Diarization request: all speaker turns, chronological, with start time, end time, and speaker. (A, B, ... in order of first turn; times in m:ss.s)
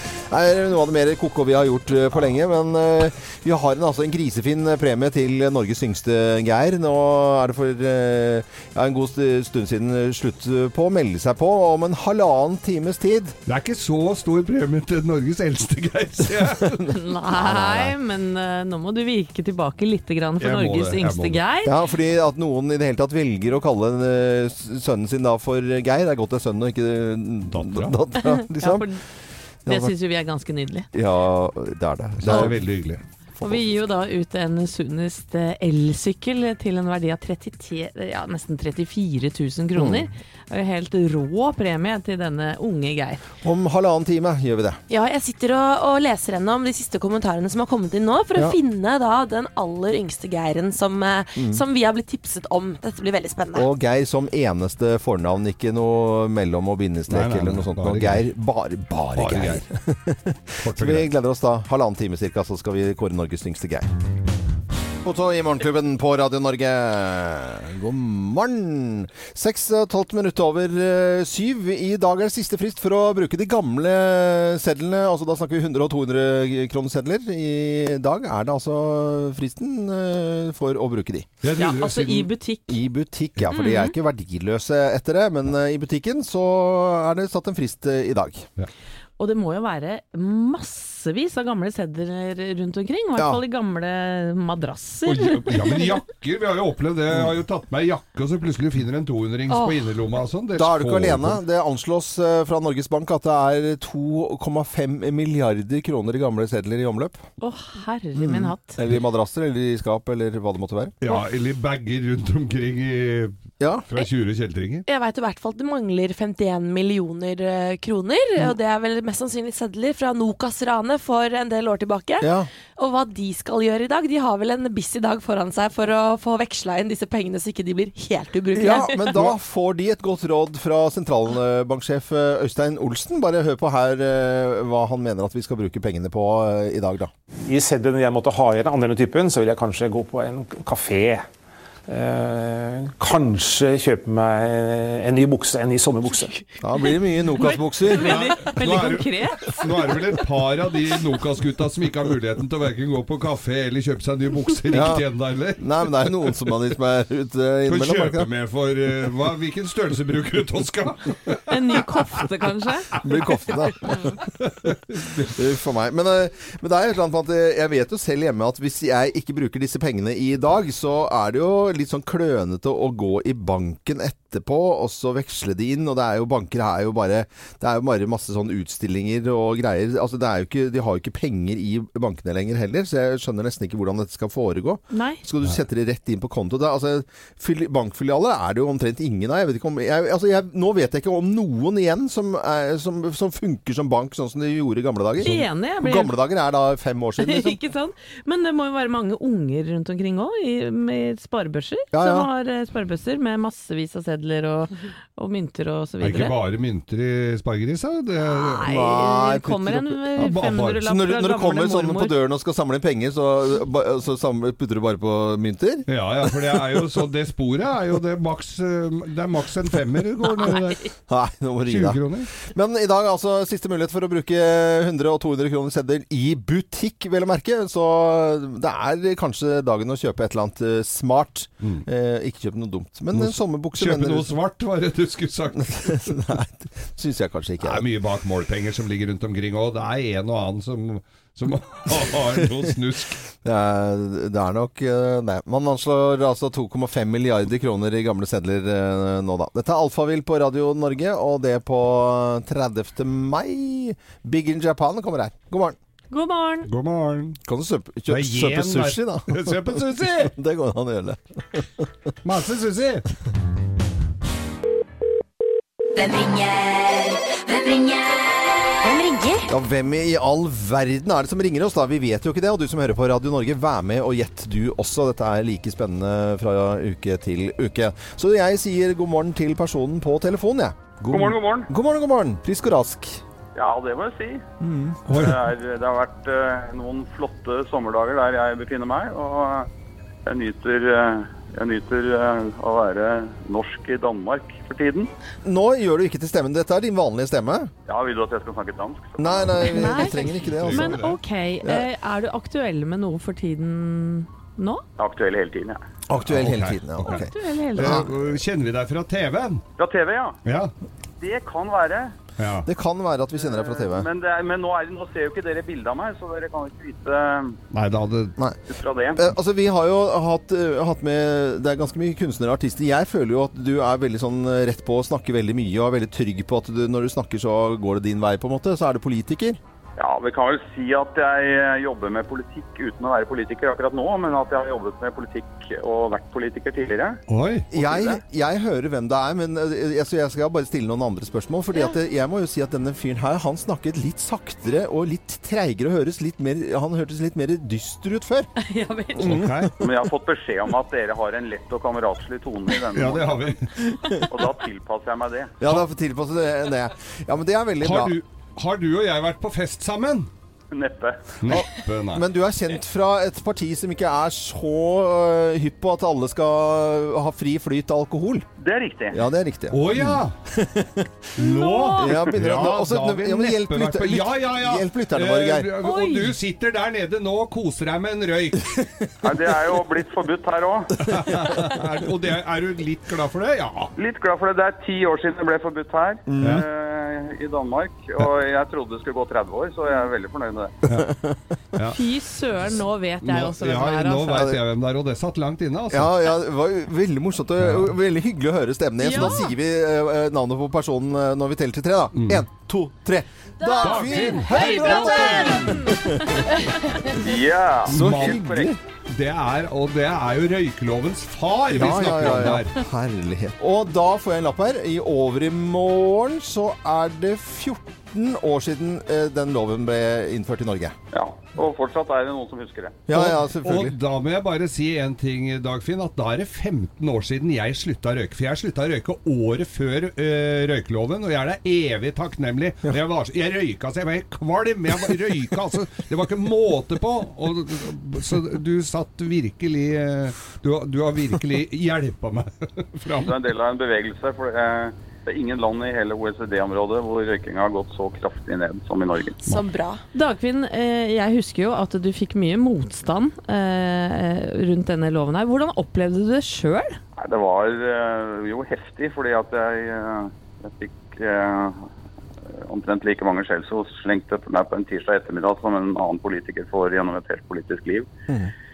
0:00.3-0:13.4 A
0:13.5-0:16.9 B
0:16.6-0:18.0 A
0:16.9-0:21.8 C
0:20.4-0:21.4 B
0:21.6-0:28.9 A
0:27.5-0:28.0 B
0:28.2-0:29.0 C
0:29.7-0:29.9 A
0:29.7-0:30.9 C
0:30.9-0:32.6 A
0:32.2-0:33.0 B
0:33.4-0:33.7 A
0:33.4-0:43.2 C
0:39.8-0:40.1 A
0:43.4-0:44.8 A
0:44.9-0:53.7 D
0:51.4-0:51.6 A
0:53.5-1:03.9 A
0:57.1-0:58.3 B
0:59.2-0:59.6 B
1:00.6-1:01.1 B
1:05.0-1:21.3 A
1:21.4-1:22.3 B
1:21.6-1:22.8 C
1:22.7-1:28.5 A
1:23.5-1:23.9 C
1:29.2-1:35.7 C
1:35.0-1:41.4 B
1:40.6-1:47.2 A
1:47.4-1:48.8 C
1:48.2-1:51.0 A
1:51.0-1:53.4 B
1:53.6-1:53.9 A
1:53.9-1:54.9 B
1:54.9-2:09.3 D
2:02.2-2:02.5 A
2:08.5-2:17.1 A
2:17.5-2:21.3 E
2:21.9-2:26.4 E
2:26.6-2:28.3 A
2:27.4-2:29.6 C
2:28.4-2:36.2 B
2:34.7-2:35.0 A
2:35.6-2:38.3 A
2:37.7-2:41.8 B
2:41.5-2:42.9 C
2:43.0-2:44.2 A
2:44.4-2:45.3 B
2:45.2-3:17.6 A
3:04.9-3:05.2 C
3:15.2-3:16.2 C
3:17.2-3:26.4 C
3:21.9-3:22.3 A
3:26.0-3:28.7 B
3:28.2-3:32.2 C
3:28.6-3:30.0 A
3:30.2-3:30.8 B
3:30.8-3:35.9 A
3:35.9-3:40.9 B
3:41.1-3:54.4 A
3:41.7-3:42.3 B
3:53.1-3:56.1 B
3:55.6-3:57.9 A
3:57.6-4:03.2 B
4:03.4-4:15.8 A
4:16.1-4:16.7 C
4:16.7-4:17.4 B
4:17.5-4:21.9 A
4:18.1-4:20.4 B
4:22.2-4:23.1 B
4:26.0-4:29.1 F
4:28.8-4:29.4 D
4:29.5-4:43.2 A
4:41.1-4:41.7 G
4:43.6-4:44.5 G
4:44.6-4:45.2 A
4:45.1-4:45.4 B
4:45.1-4:49.7 G
4:50.3-4:55.1 G
4:55.4-4:57.7 A
4:57.9-4:59.5 G
4:59.2-5:01.0 A
4:59.6-5:04.8 C
4:59.8-5:01.2 B
5:05.0-5:05.8 G
5:06.1-5:08.1 A
5:06.3-5:09.6 B
5:07.1-5:08.1 C
5:09.8-5:10.4 G
5:10.5-5:10.7 B
5:11.2-5:12.1 G
5:12.4-5:12.7 B
5:12.6-5:14.1 A
5:13.4-5:17.6 G
5:17.7-5:18.4 B
5:18.7-5:19.2 G
5:19.2-5:29.6 A
5:30.0-5:37.2 G
5:37.3-5:37.7 B
5:37.7-5:48.5 A
5:37.8-5:38.2 G
5:48.6-5:49.4 C
5:49.2-5:49.7 A
5:49.2-5:49.7 B
5:49.8-5:53.6 G
5:52.9-5:53.7 B
5:54.3-5:55.5 G
5:55.6-5:58.2 A
5:57.8-6:00.3 B
6:00.7-6:01.3 G
6:01.4-6:02.2 B
6:01.5-6:08.5 A
6:08.6-6:09.2 G
6:09.1-6:11.3 A
6:09.7-6:10.4 B
6:11.4-6:12.2 C
6:11.4-6:18.8 B
6:12.0-6:15.7 A
6:15.8-6:16.4 C
6:19.2-6:21.0 G
6:21.0-6:23.9 B
6:24.0-6:30.8 G
6:26.3-6:26.6 A
6:31.0-6:31.4 A
6:31.9-6:34.6 C
6:33.2-6:36.1 B
6:35.9-6:46.4 A
6:37.6-6:37.9 B
6:39.0-6:39.5 C
6:42.2-6:42.4 B
6:43.8-6:45.8 B
6:44.1-6:47.0 C
6:47.2-6:48.7 G
6:47.9-6:48.4 B
6:47.9-6:48.8 A
6:49.1-6:52.8 B
6:51.7-7:01.0 A
7:01.1-7:03.0 G
7:03.1-7:04.0 A
7:03.1-7:23.4 B
7:23.2-7:29.4 G
7:29.4-7:30.0 D
7:30.1-7:37.0 C
7:37.2-7:41.9 G
7:42.5-7:48.1 G